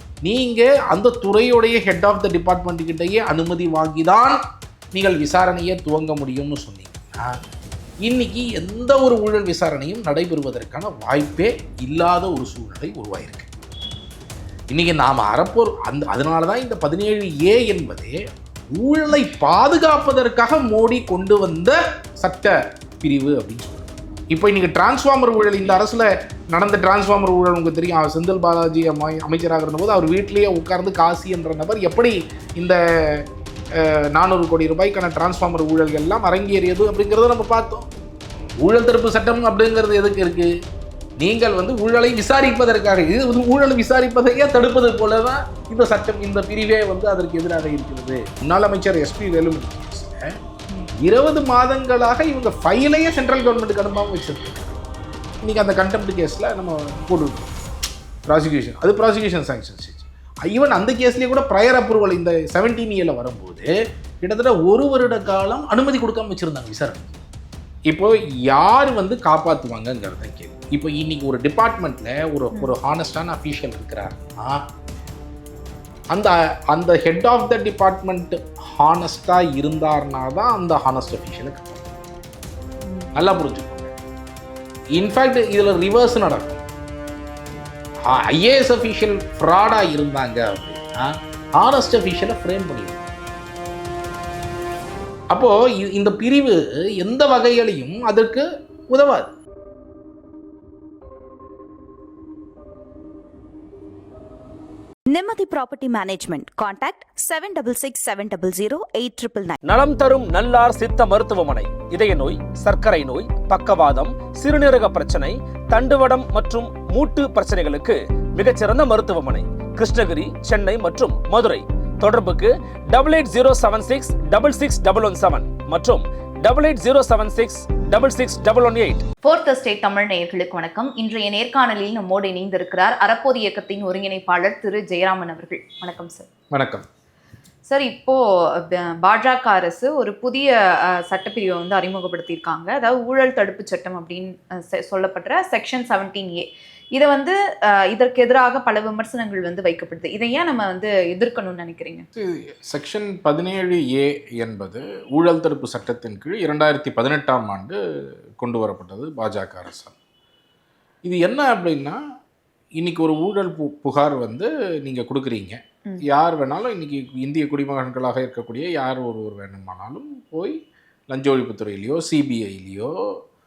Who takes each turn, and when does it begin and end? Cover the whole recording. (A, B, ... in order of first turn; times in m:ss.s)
0:00.2-0:04.4 A
0:04.9-0:07.4 A
0:08.0-0:13.5 A
0:14.7-0:18.2 A
0:18.8-0:33.2 A
0:33.8-0:37.9 A
0:38.6-0:40.5 A
0:41.2-0:50.3 A
0:51.0-0:54.8 A
0:55.4-0:57.5 A
0:58.3-1:03.7 A
1:04.2-1:07.1 A
1:07.9-1:14.6 A
1:16.1-1:21.9 A
1:23.2-1:23.9 A
1:25.0-1:26.6 A
1:28.1-1:33.1 A
1:35.3-1:39.3 A
1:45.1-1:49.6 B
1:49.6-2:09.0 C
2:09.2-2:16.3 D
2:16.5-2:16.9 A
2:17.7-2:32.1 D
2:32.2-2:37.8 A
2:38.4-2:40.0 A
2:41.0-2:42.0 A
2:42.8-2:50.6 A
2:51.1-2:52.9 A